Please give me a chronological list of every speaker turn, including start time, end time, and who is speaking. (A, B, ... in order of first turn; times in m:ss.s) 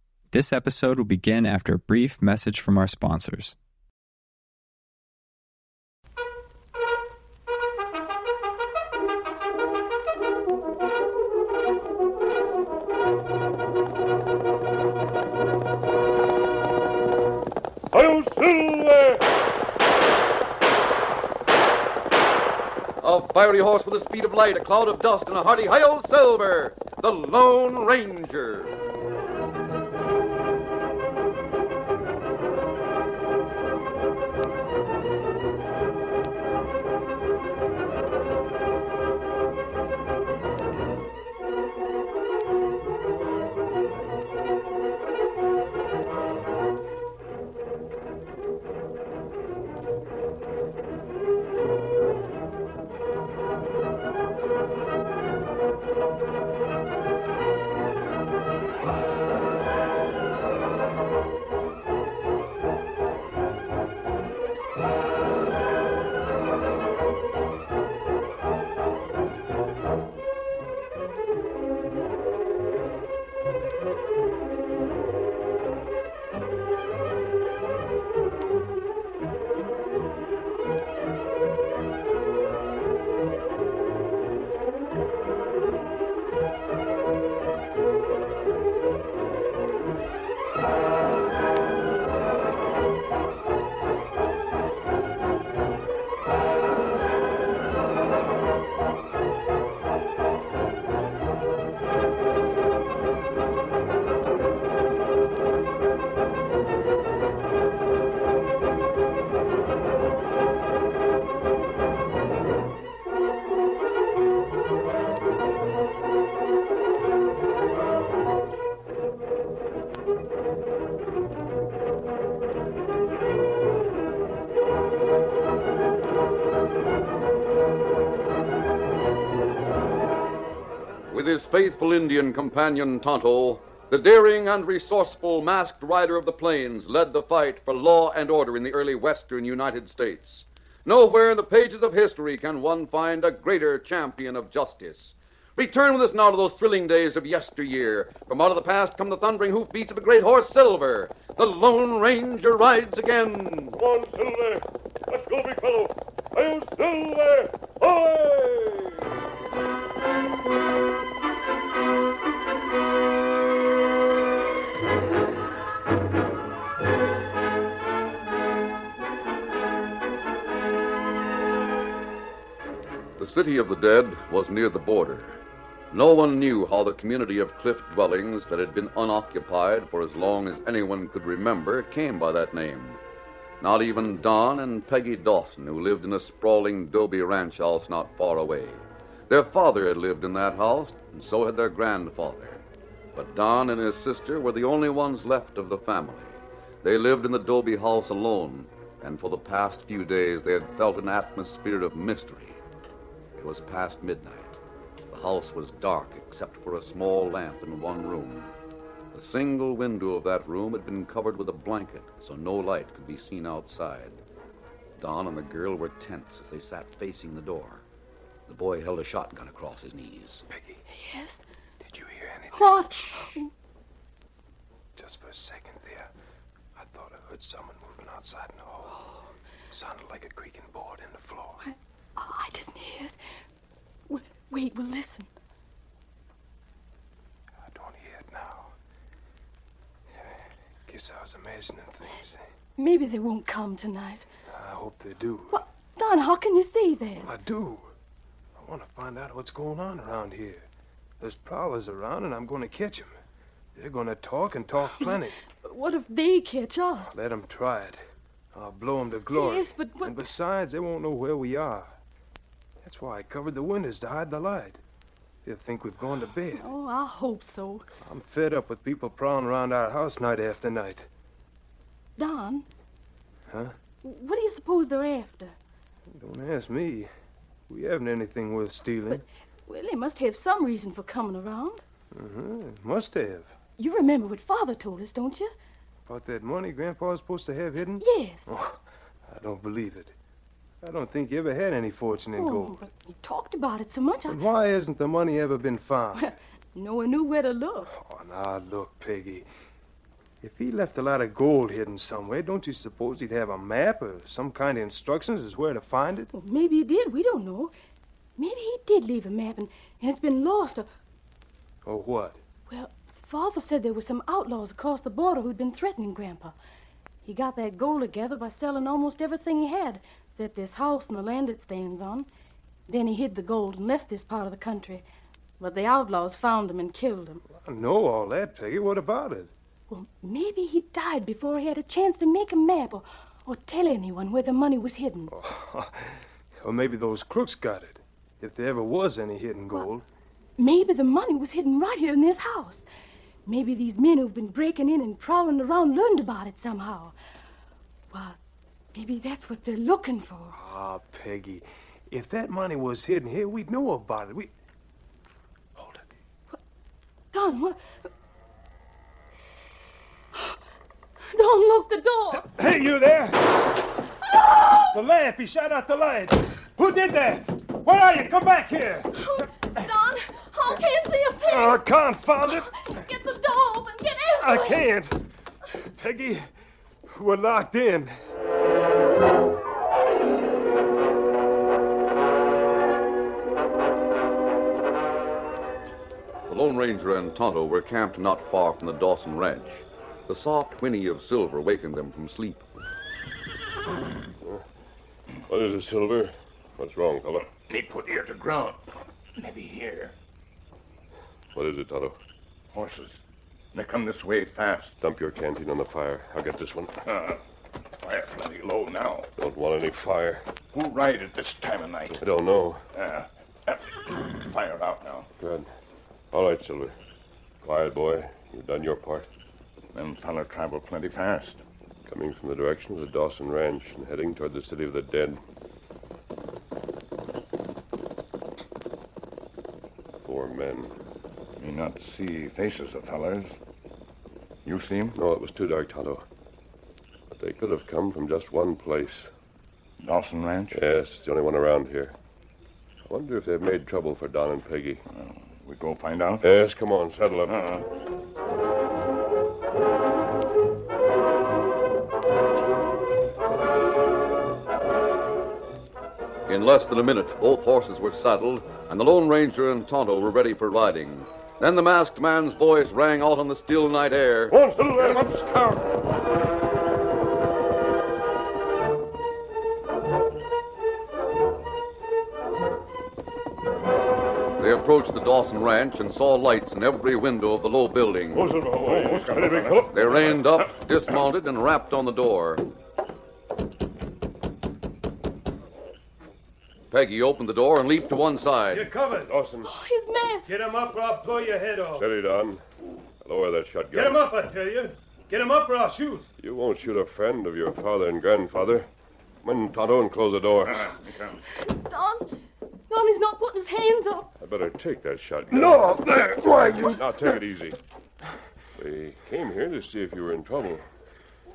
0:00.3-0:03.5 A
0:17.9-0:19.2 B
0:23.0-0:28.8 C
2:11.1-2:33.8 C
2:33.8-2:39.0 B
2:53.2-2:55.4 C
2:55.9-3:03.0 C
3:03.6-3:12.6 C
3:13.1-3:22.6 C
3:23.4-3:24.6 C
3:25.1-3:28.5 C
3:29.1-3:34.2 C
3:35.0-3:37.8 C
3:38.5-3:40.4 C
3:40.5-3:40.8 D
3:40.9-3:41.4 E
3:41.8-3:43.4 D
3:42.5-3:43.5 E
3:45.0-3:46.1 D
3:46.8-3:48.9 D
3:49.7-3:51.6 D
3:51.6-3:53.1 E
3:54.1-3:55.3 E
3:57.6-3:58.7 D
4:00.9-4:02.4 D
4:02.8-4:04.2 E
4:04.5-4:05.6 D
4:05.5-4:07.3 E
4:07.2-4:07.9 D
4:08.6-4:10.6 D
4:11.2-4:13.1 D
4:13.8-4:15.4 D
4:15.0-4:17.1 E
4:17.1-4:18.0 D
4:18.5-4:21.9 D
4:19.3-4:20.3 E
4:22.8-4:24.8 D
4:25.4-4:26.7 D
4:26.6-4:27.8 E
4:28.0-4:31.1 D
4:32.2-4:32.6 E
4:34.0-4:35.5 E
4:36.1-4:37.1 D
4:37.7-4:39.2 D
4:39.1-4:41.8 E
4:42.1-4:43.5 D
4:43.8-4:45.5 E
4:46.1-4:48.8 D
4:48.0-4:48.4 E
4:49.3-4:50.1 D
4:50.8-4:52.8 D
4:52.4-4:54.4 E
4:54.3-4:56.2 D
4:56.2-4:57.9 E
4:57.9-4:59.4 D
5:00.4-5:06.3 D
5:06.3-5:07.7 E
5:08.4-5:10.9 E
5:11.8-5:12.4 D
5:12.7-5:16.5 E
5:17.2-5:22.3 E
5:22.9-5:25.0 E
5:25.6-5:27.4 E
5:27.5-5:29.5 D
5:29.9-5:35.3 E
5:35.3-5:40.0 D
5:40.6-5:42.8 E
5:43.5-5:47.1 E
5:48.1-5:48.4 E
5:48.9-5:50.6 E
5:50.5-5:54.5 D
5:55.8-5:56.0 D
5:57.3-5:57.8 E
6:01.3-6:02.5 E
6:02.4-6:03.7 D
6:04.8-6:09.3 D
6:09.2-6:11.8 E
6:11.4-6:12.7 D
6:12.7-6:14.8 E
6:14.4-6:15.3 D
6:15.8-6:16.5 D
6:17.1-6:18.1 D
6:26.5-6:32.6 C
6:35.5-6:37.5 B
6:37.5-6:38.8 F
6:39.4-6:40.1 F
6:41.5-6:42.2 B
6:42.7-6:43.2 F
6:43.7-6:45.0 F
6:45.0-6:47.0 B
6:47.0-6:47.4 F
6:48.0-6:49.3 F
6:49.4-6:50.4 B
6:50.7-6:52.2 F
6:52.2-6:52.8 B
6:52.9-6:55.3 F
6:55.4-6:55.7 B
6:56.3-6:56.9 B
6:57.6-6:59.3 B
6:59.9-7:01.6 F
7:02.1-7:05.4 B
7:10.2-7:11.0 B
7:11.6-7:13.6 F
7:14.6-7:15.2 F
7:15.1-7:16.2 B
7:17.3-7:19.3 B
7:20.0-7:20.8 F
7:20.7-7:22.2 B
7:23.1-7:25.0 B
7:25.1-7:26.5 F
7:26.4-7:27.6 B
7:27.5-7:27.9 F
7:36.5-7:44.6 C
7:44.5-7:45.2 B
7:44.8-7:45.9 F
7:54.6-7:58.6 C
7:58.3-7:59.9 B
7:58.6-8:00.7 F
7:59.9-8:02.7 C
8:06.9-8:08.9 C
8:08.7-8:09.3 D
8:09.3-8:09.7 B
8:09.6-8:10.5 E
8:10.4-8:12.0 D
8:11.9-8:12.6 B
8:13.2-8:14.2 B
8:13.9-8:16.3 D
8:16.4-8:18.9 B
8:19.4-8:20.9 B
8:20.6-8:21.4 F
8:21.5-8:22.3 E
8:22.9-8:24.3 E
8:24.4-8:26.1 B
8:25.5-8:27.3 D
8:26.8-8:27.8 B
8:28.8-8:30.8 B